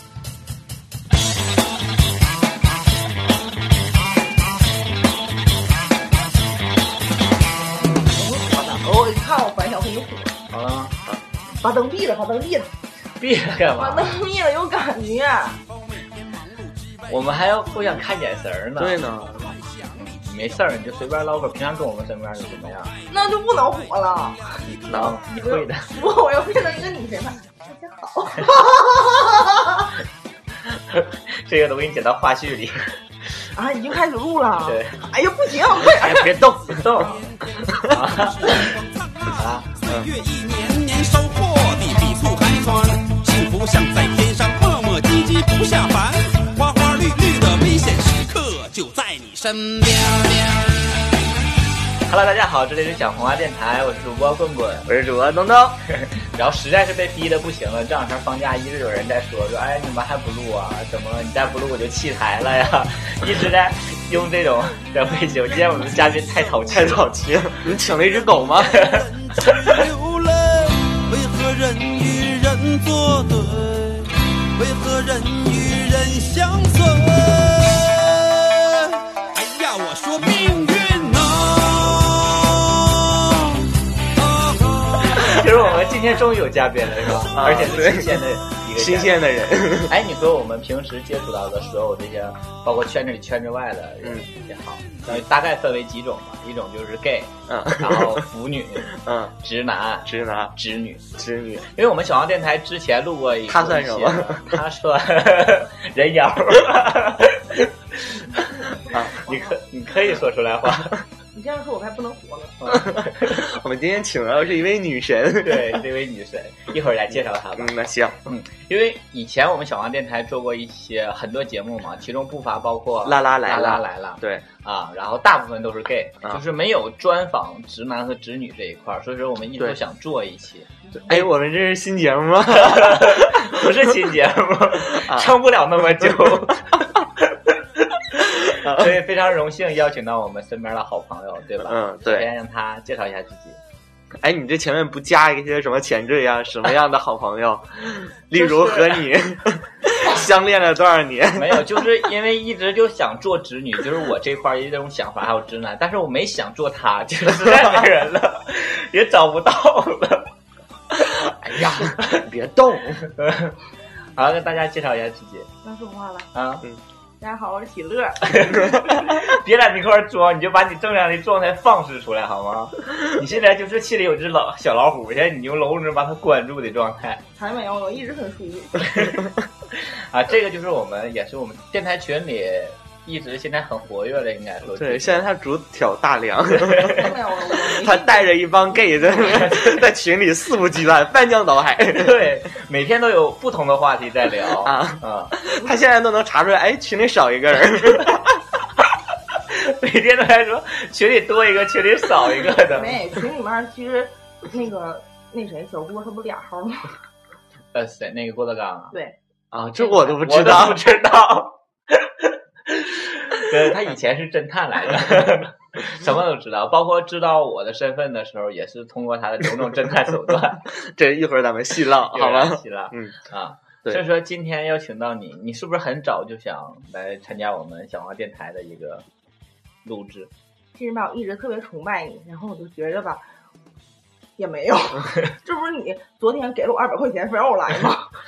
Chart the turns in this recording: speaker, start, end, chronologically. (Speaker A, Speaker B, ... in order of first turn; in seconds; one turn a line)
Speaker A: 7.9-10.4
Speaker B: 10.5-11.0
Speaker A: 11.6-12.7
Speaker B: 13.2-14.1
Speaker A: 13.7-15.6
Speaker C: 15.7-17.8
Speaker B: 17.1-19.0
Speaker D: 18.8-19.6
Speaker C: 19.2-20.1
Speaker B: 19.9-22.9
Speaker A: 23.1-24.6
Speaker B: 24.7-25.9
Speaker D: 24.9-25.2
Speaker A: 25.3-29.9
Speaker B: 30.7-32.9
Speaker A: 33.5-36.4
Speaker B: 34.6-35.0
Speaker D: 35.8-36.9
Speaker B: 36.6-38.7
Speaker C: 37.0-50.9
Speaker D: 37.7-38.0
Speaker B: 39.3-39.6
Speaker D: 39.9-40.1
Speaker B: 52.0-54.9
Speaker D: 54.9-55.8
Speaker B: 55.9-67.0
Speaker C: 65.5-66.7
Speaker D: 66.7-68.8
Speaker C: 67.9-85.5
Speaker B: 68.7-69.8
Speaker B: 85.2-101.0
Speaker D: 87.3-89.9
Speaker D: 94.0-94.3
Speaker D: 97.5-98.2
Speaker D: 98.8-99.3
Speaker D: 100.0-100.5
Speaker D: 101.2-101.7
Speaker B: 101.7-108.5
Speaker D: 103.5-104.6
Speaker D: 108.9-109.2
Speaker B: 109.2-111.0
Speaker A: 111.3-112.6
Speaker B: 112.6-113.4
Speaker D: 112.7-115.8
Speaker B: 115.4-117.7
Speaker D: 117.5-118.2
Speaker B: 118.2-131.3
Speaker D: 123.0-124.4
Speaker D: 131.0-133.8
Speaker B: 132.5-143.6
Speaker D: 134.8-137.0
Speaker D: 138.2-139.0
Speaker D: 141.6-142.3
Speaker D: 144.2-151.9
Speaker B: 148.3-149.1
Speaker B: 151.3-160.3
Speaker B: 161.0-162.2
Speaker D: 161.3-163.1
Speaker B: 163.1-163.6
Speaker B: 164.2-165.5
Speaker A: 165.6-166.3
Speaker B: 166.3-166.6
Speaker A: 167.2-168.5
Speaker B: 168.2-177.2
Speaker D: 168.7-169.0
Speaker A: 177.4-179.1
Speaker B: 178.8-185.2
Speaker D: 184.7-187.1
Speaker B: 186.5-187.1
Speaker A: 186.9-188.3
Speaker D: 187.8-192.3
Speaker B: 189.2-189.8
Speaker B: 191.9-195.3
Speaker D: 194.6-198.4
Speaker B: 199.3-203.0
Speaker A: 202.7-206.9
Speaker B: 207.7-208.9
Speaker D: 209.5-210.8
Speaker B: 209.6-220.6
Speaker D: 220.7-223.2
Speaker B: 222.1-229.0
Speaker B: 229.8-230.3
Speaker A: 230.7-233.2
Speaker A: 234.4-238.1